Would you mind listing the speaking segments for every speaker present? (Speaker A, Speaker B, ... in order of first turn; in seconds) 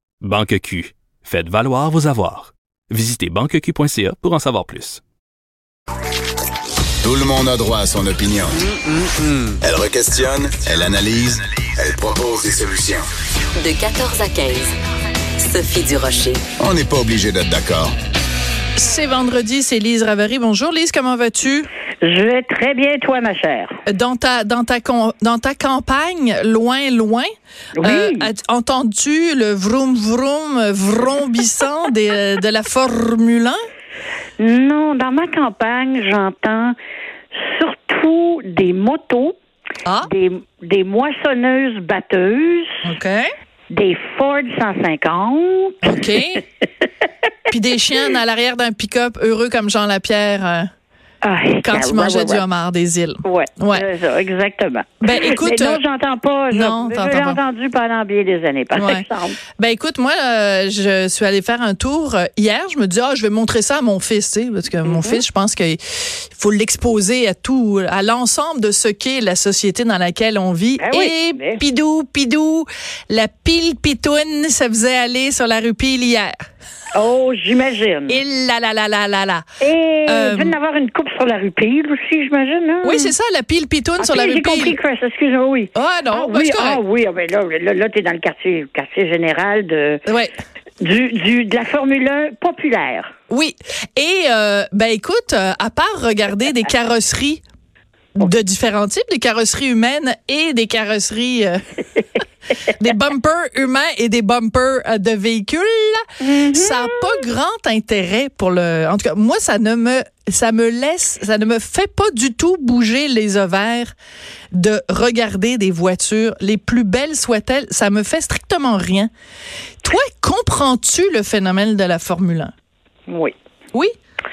Speaker A: 0.2-5.0
Speaker B: 7.0-8.7, 9.5-13.0, 16.6-17.9
Speaker C: 13.6-14.7, 15.4-16.4
Speaker D: 18.8-21.7, 23.9-27.3, 27.8-33.6, 42.8-43.3, 45.8-46.4, 47.5-50.7, 51.6-53.9, 55.0-55.8, 56.5-57.4, 58.8-59.0, 59.6-76.3, 78.1-79.4, 80.1-80.6, 82.8-84.8, 85.8-86.8, 93.3-97.4, 98.2-101.6, 102.7-113.9, 114.5-119.1, 119.8-122.5
Speaker E: 22.0-23.8, 27.8-28.3, 34.4-36.8, 37.4-39.4, 40.0-42.8, 43.7-45.8, 51.2-52.4, 53.2-59.4, 64.8-65.2, 70.8-71.6, 76.9-78.2, 79.6-83.1, 84.0-90.0, 90.8-93.1, 106.2-107.2, 123.1-123.3